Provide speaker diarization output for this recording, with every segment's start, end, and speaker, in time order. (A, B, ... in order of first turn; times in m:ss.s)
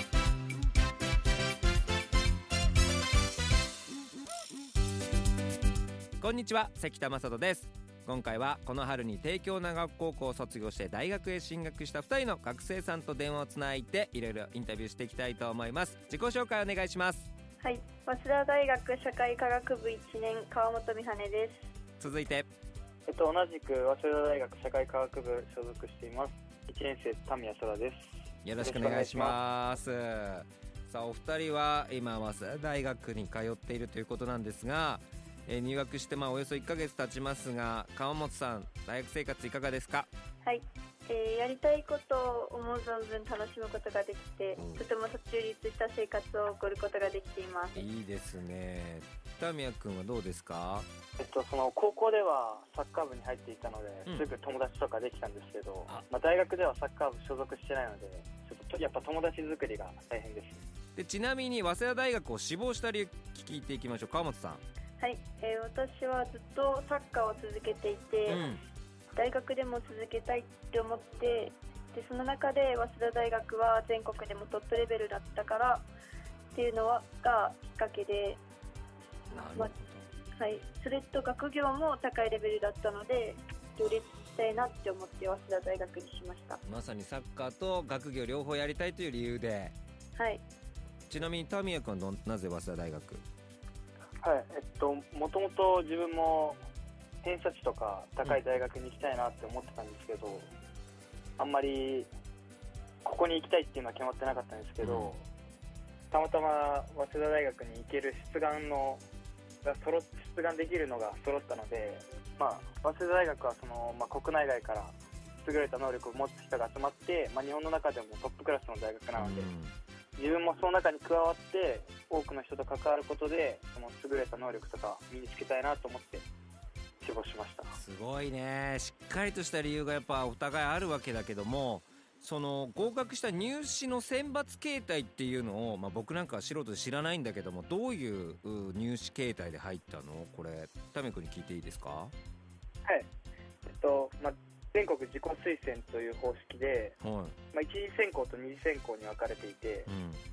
0:06.2-0:17.3 A
0:17.6-0:21.7 B
0:22.0-0:22.5 A
0:23.1-0:29.4 C
0:28.4-0:40.1 A
0:40.4-0:47.8 B
0:44.6-0:44.8 A
0:47.8-0:50.9 A
0:51.2-1:00.6 C
1:01.0-1:04.6 A
1:05.0-1:08.5 B
1:08.3-1:08.6 A
1:09.2-1:15.9 B
1:16.5-1:18.4 B
1:19.3-1:20.1 A
1:20.4-1:26.6 B
1:26.6-1:29.8 A
1:30.2-1:30.4 B
1:31.1-1:33.2 A
1:34.2-1:36.6 C
1:37.2-1:40.5 C
1:41.4-1:42.1 C
1:43.0-1:45.2 C
1:44.8-1:45.1 A
1:46.1-1:49.0 C
1:49.6-1:59.5 C
1:59.2-1:59.7 A
2:00.2-2:06.2 C
2:07.0-2:07.8 C
2:07.7-2:22.1 A
2:23.7-2:27.0 C
2:27.0-2:27.4 A
2:27.5-2:29.9 C
2:29.9-2:30.2 A